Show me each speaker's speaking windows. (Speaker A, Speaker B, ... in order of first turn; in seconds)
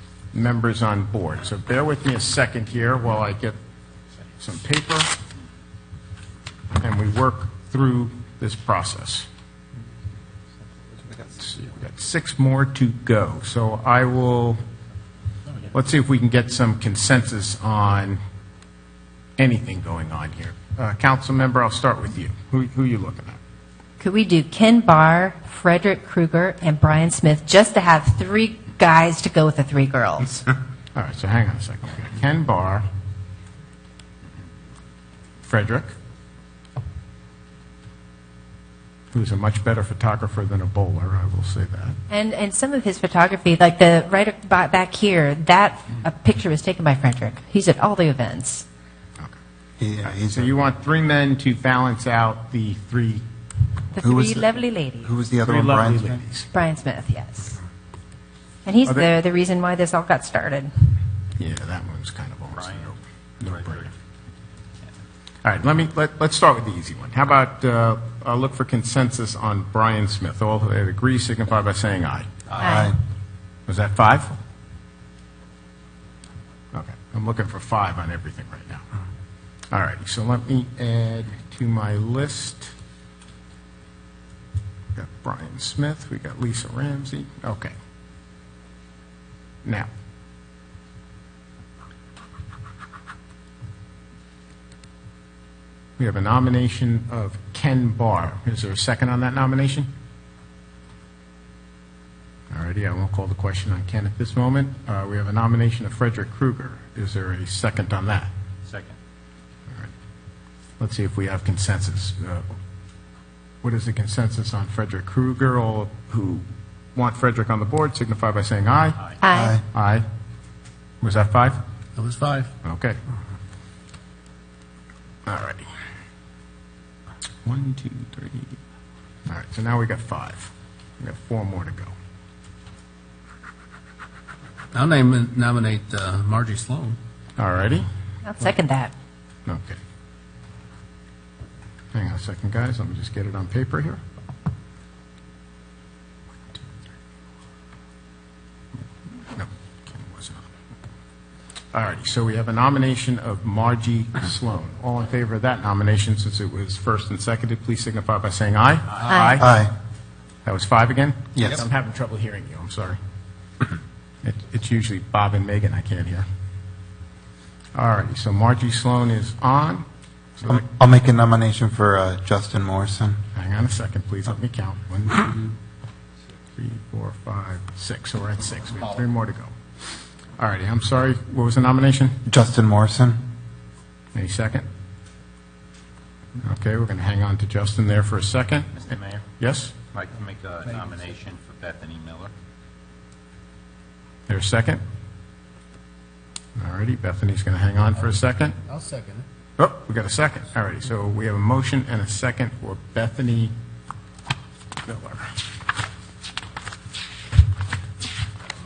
Speaker A: 0.3-3.6, 4.4-5.1, 6.8-9.3, 11.4-14.6, 15.7-18.2, 19.4-23.4, 30.9-32.9, 35.4-35.9, 39.1-42.0, 50.0-53.2, 55.4-56.5, 61.4-63.9, 65.4-72.5, 73.7-74.4, 76.7-78.8, 79.7-82.7, 84.9-87.8, 89.6-89.9, 96.0-99.9, 102.5-108.3, 110.8-112.5, 113.6-119.0, 119.7-120.0, 121.0-121.6, 122.6-123.0, 125.2-125.7, 127.4-128.6, 129.3-131.9, 137.4-137.9, 139.4-139.8, 141.9-144.0, 149.3-150.4, 151.7-159.6, 160.4-163.0, 164.2-166.3, 167.7-169.8, 170.4-170.6, 173.3-175.5, 176.6-179.5, 180.4-182.2, 184.1-184.7, 186.4-189.7, 194.3-194.8, 196.6-198.6, 199.6-203.5, 204.8-205.4
Speaker B: 24.0-30.4, 42.1-48.6, 53.9-55.1, 56.5-57.6, 58.6-60.9, 72.6-72.9, 119.2-119.6, 138.2-138.9, 159.1-159.4
Speaker C: 49.8-50.5, 54.0-56.2, 72.6-73.0, 119.3-119.6, 159.4-159.7, 161.3-161.6, 170.5-173.2, 182.2-183.2
Speaker D: 62.5-62.9, 63.5-63.9, 108.6-109.0, 188.8-189.2, 189.9-192.3
Speaker E: 122.0-122.5, 134.7-137.0, 198.7-199.3